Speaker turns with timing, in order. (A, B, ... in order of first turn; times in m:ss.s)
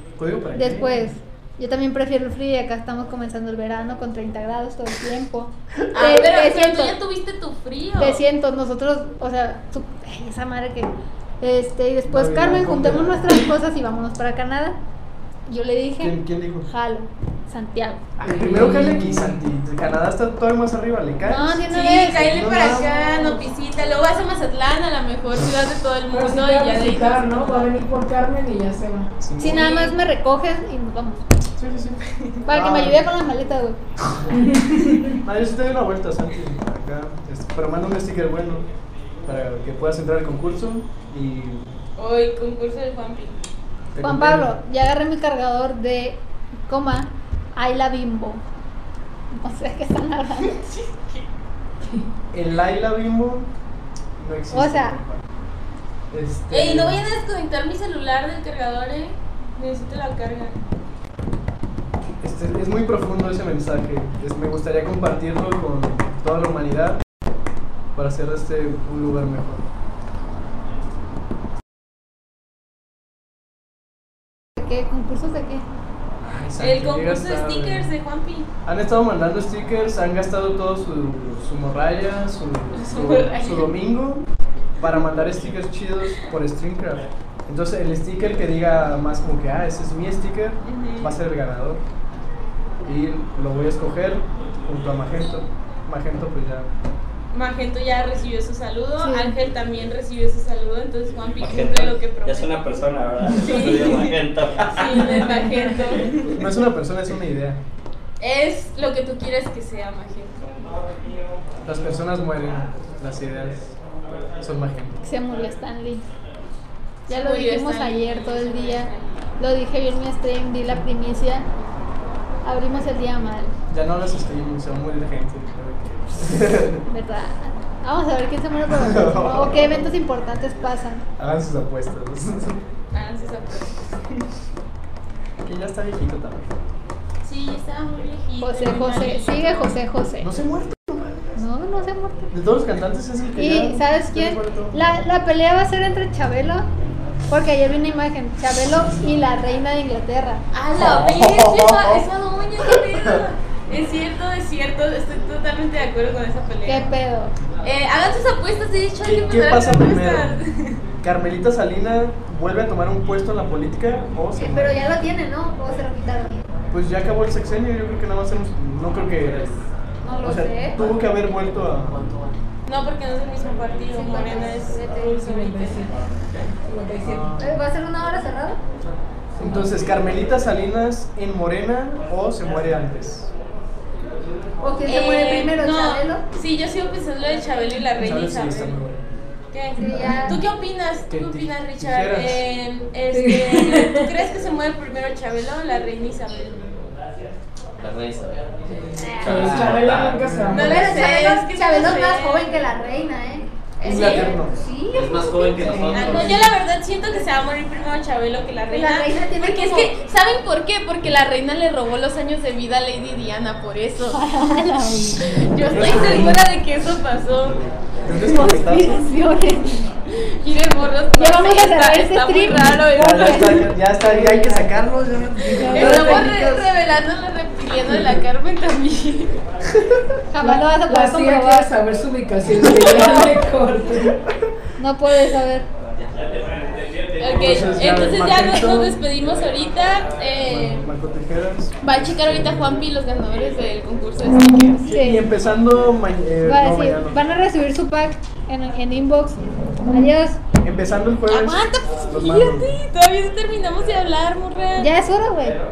0:00.2-0:00.9 A
0:00.5-0:07.0 B
0:05.9-0:08.2 C
0:08.0-0:14.8 B
0:12.1-0:13.4 A
0:15.5-0:18.0 B
0:16.0-0:16.7 A
0:18.2-0:23.3 A
0:18.2-0:19.4 D
0:21.2-0:22.8 B
0:21.7-0:27.7 C
0:26.1-0:29.1 D
0:29.2-0:29.7 A
0:29.4-0:31.2 B
0:29.5-0:29.9 C
0:31.6-0:33.0 A
0:32.1-0:32.4 C
0:32.4-0:33.8 B
0:34.4-0:35.1 D
0:35.2-0:38.6 A
0:39.2-0:41.7 A
0:42.0-0:43.4 C
0:43.9-0:44.5 A
0:44.0-0:48.4 B
0:49.3-0:50.6 B
0:50.4-0:51.3 C
0:52.3-0:53.5 A
0:54.2-0:55.2 A
0:54.5-0:55.0 B
0:56.1-0:57.0 A
0:56.5-1:00.6 C
1:02.2-1:07.0 A
1:07.9-1:09.6 A
1:14.6-1:15.7 B
1:16.2-1:17.9 A
1:16.6-1:18.5 C
1:18.6-1:24.2 A
1:22.7-1:23.7 C
1:24.8-1:31.8 A
1:30.6-1:31.2 C
1:32.8-1:36.7 A
1:37.3-1:46.4 C
1:39.0-1:39.4 B
1:41.4-1:45.3 E
1:46.2-1:47.6 A
1:48.2-1:50.5 C
1:51.6-1:53.8 A
1:54.4-1:55.0 A
1:55.0-1:56.0 B
1:57.1-1:59.4 C
1:57.1-2:01.5 B
2:02.4-2:03.5 B
2:03.7-2:06.8 A
2:06.9-2:11.1 B
2:08.7-2:09.9 A
2:11.2-2:12.6 A
2:12.9-2:13.8 C
2:15.4-2:16.5 A
2:17.2-2:19.8 C
2:18.4-2:20.3 B
2:20.2-2:21.3 A
2:21.4-2:22.3 B
2:22.3-2:24.8 A
2:23.4-2:26.7 B
2:27.3-2:30.4 B
2:30.5-2:36.9 C
2:30.7-2:32.0 A
2:32.7-2:33.2 A
2:36.6-2:37.3 B
2:37.6-2:40.8 C
2:39.0-2:40.4 A
2:41.0-2:44.8 A
2:44.4-2:46.5 B
2:46.7-2:49.6 A
2:50.0-2:50.8 B
2:50.2-2:52.1 A
2:52.6-2:55.8 C
2:53.9-2:55.2 B
2:55.0-2:57.5 D
2:57.3-2:58.6 B
2:59.4-3:03.3 A
3:04.6-3:06.2 B
3:04.8-3:08.8 C
3:08.0-3:09.0 A
3:09.5-3:16.7 C
3:09.8-3:10.4 B
3:09.8-3:10.2 D
3:11.1-3:12.4 A
3:13.1-3:14.1 D
3:17.8-3:18.4 E
3:18.7-3:21.0 D
3:19.0-3:19.4 B
3:19.2-3:20.4 E
3:20.5-3:22.4 C
3:20.5-3:25.8 B
3:23.8-3:24.4 C
3:23.8-3:24.6 A
3:24.9-3:26.5 E
3:25.6-3:26.4 D
3:25.8-3:34.5 C
3:28.7-3:29.9 B
3:34.1-3:36.3 B
3:35.4-3:38.2 C
3:35.6-3:36.4 A
3:38.0-3:39.0 A
3:38.3-3:39.8 B
3:40.1-3:43.6 C
3:41.2-3:43.7 B
3:43.0-3:46.7 A
3:44.1-3:44.7 D
3:45.5-3:46.3 D
3:45.7-3:49.4 C
3:45.8-3:46.4 B
3:49.8-3:50.1 A
3:50.3-3:51.8 B
3:50.4-3:54.1 D
3:54.8-3:55.7 B
3:57.2-4:00.8 C
3:57.4-3:59.0 A
4:00.5-4:02.8 A
4:01.8-4:05.0 C
4:04.8-4:05.2 B
4:04.9-4:07.2 A
4:06.4-4:10.4 B
4:10.6-4:12.8 A
4:11.3-4:14.9 C
4:14.8-4:15.6 B